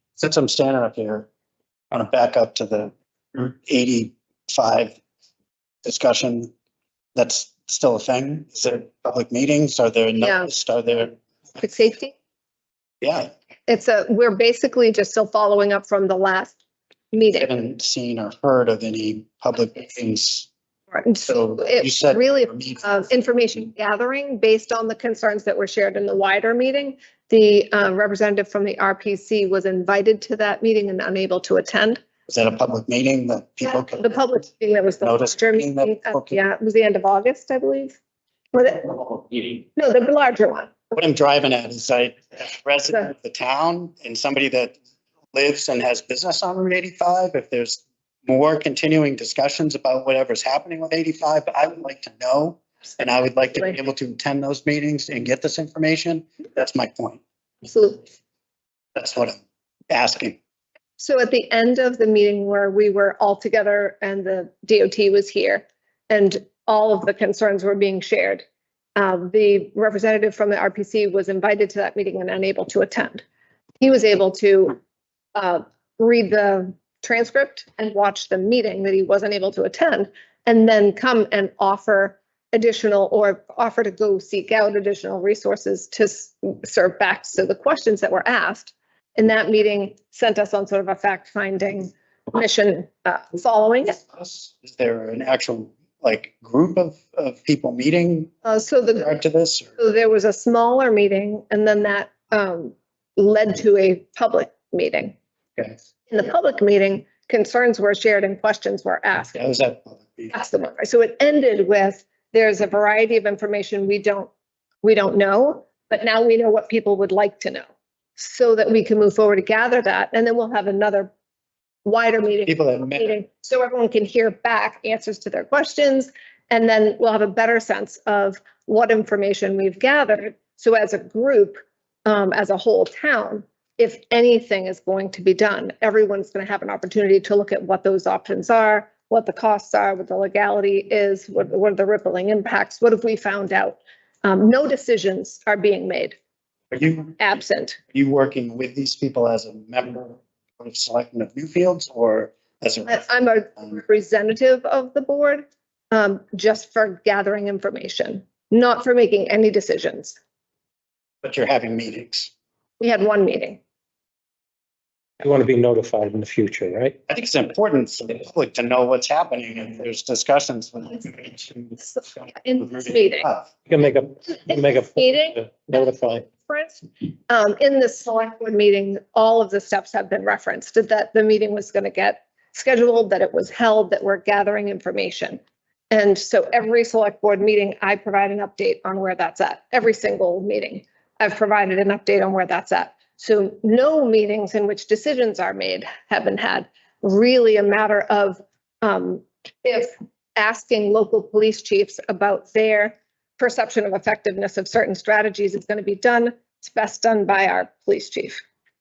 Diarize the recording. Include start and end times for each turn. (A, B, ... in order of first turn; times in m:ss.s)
0:00.2-0:01.3 A
0:01.9-0:05.0 A
0:05.8-0:06.5 A
0:07.1-0:11.2 A
0:10.2-0:10.5 B
0:11.6-0:12.1 B
0:13.0-0:13.3 A
0:13.7-0:16.6 B
0:17.1-0:17.5 B
0:17.3-0:20.5 A
0:20.9-0:32.0 B
0:21.2-0:22.8 A
0:32.3-0:34.2 A
0:33.6-0:38.0 B
0:35.0-0:36.4 A
0:38.5-0:40.8 B
0:40.9-0:44.8 A
0:45.3-0:57.2 A
0:57.6-0:58.0 B
0:58.9-0:59.4 A
0:59.9-1:00.4 A
1:01.0-1:08.4 B
1:09.0-1:13.2 B
1:13.8-1:14.8 B
1:15.3-1:34.0 B
1:34.1-1:38.3 A
1:38.4-1:39.1 B
1:38.9-1:39.8 A
1:39.8-1:45.1 B
1:46.1-1:49.4 B
1:49.3-1:50.3 A
1:50.3-1:54.3 B
1:54.8-1:57.6 B
1:58.2-2:01.1 B
2:01.8-2:26.2 B
2:02.5-2:03.1 A
2:26.7-2:27.2 A
2:27.2-2:27.8 B
2:27.9-2:33.1 A
2:32.8-2:40.2 B
2:41.2-2:42.3 A
2:42.8-2:43.6 B
2:45.2-2:47.0 C
2:47.1-2:51.8 A
2:51.8-2:53.3 B
2:52.6-2:53.5 A
2:53.6-2:56.3 C
2:54.3-2:55.4 B
2:56.3-3:28.4 B